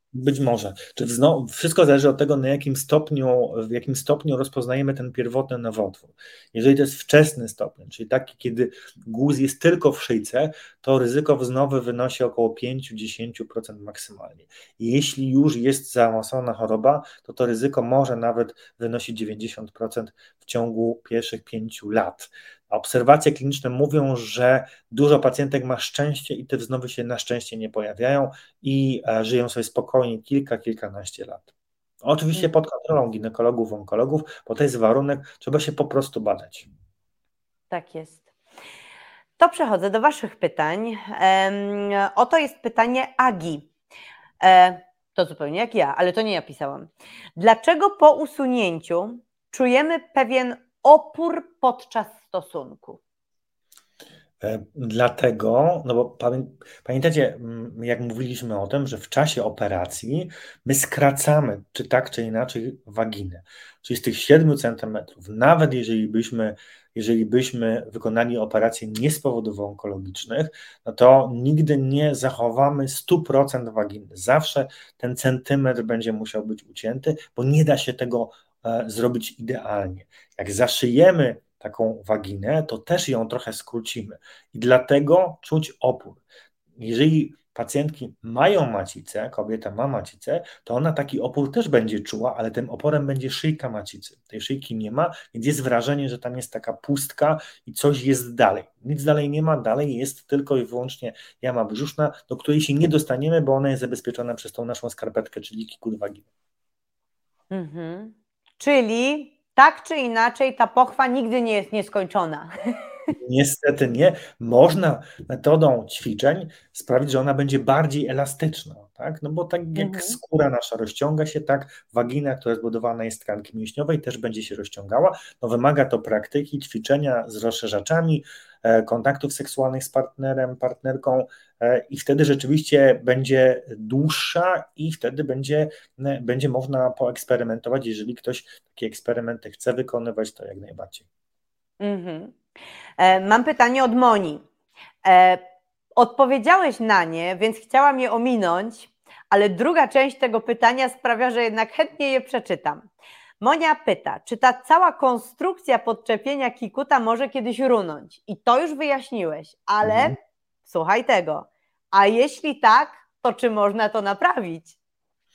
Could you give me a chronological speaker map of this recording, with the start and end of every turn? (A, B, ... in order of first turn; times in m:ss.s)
0:00.1-0:31.5 A
0:32.0-0:36.7 A
0:37.7-0:38.3 B
0:39.4-0:43.7 B
0:44.4-0:53.0 B
0:54.4-1:26.2 A
1:26.8-1:46.3 A
1:47.5-1:52.5 B
1:53.2-2:21.1 A
1:59.7-2:00.2 B
2:21.8-2:22.4 B
2:23.0-2:24.4 B
2:25.0-2:25.4 B
2:26.0-2:32.9 B
2:33.4-2:40.2 B
2:39.8-2:40.2 A
2:40.7-2:44.8 B